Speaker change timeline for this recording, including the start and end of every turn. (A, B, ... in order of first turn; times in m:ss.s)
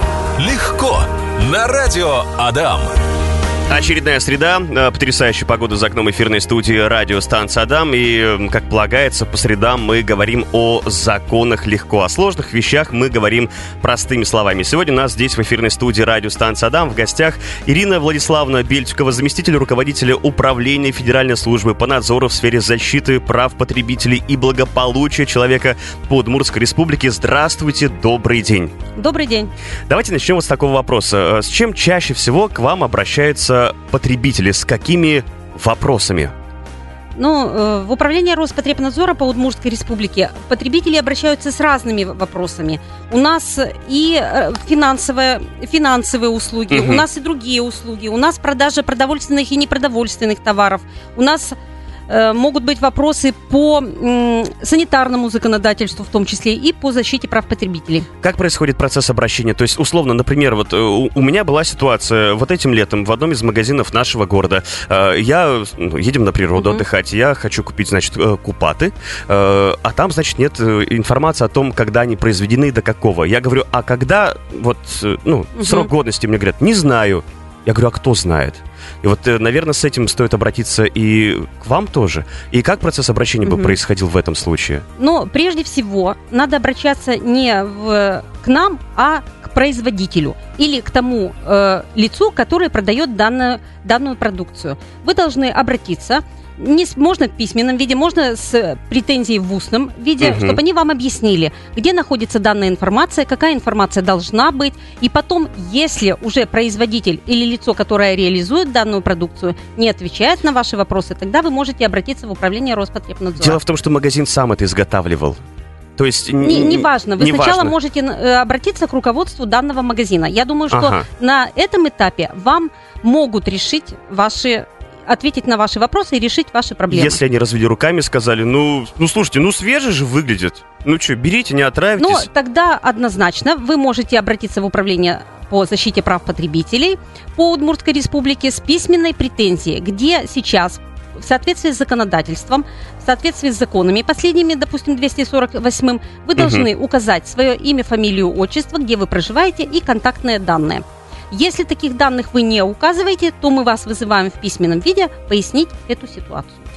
0:00.4-0:02.9 A
0:03.7-0:28.7 B
0:29.0-0:29.5 C
0:29.9-0:36.3 B
0:37.2-0:51.6 C
0:46.7-0:47.0 B
0:52.1-0:58.1 C
0:58.2-1:24.8 B
1:06.6-1:06.8 C
1:15.6-1:15.9 C
1:23.4-1:23.8 C
1:25.0-1:53.6 C
1:40.2-1:40.6 B
1:53.4-1:55.4 B
1:56.0-1:57.7 B
1:56.4-2:07.2 C
2:00.7-2:01.1 B
2:06.9-2:12.3 B
2:12.0-2:36.6 C
2:26.4-2:26.7 B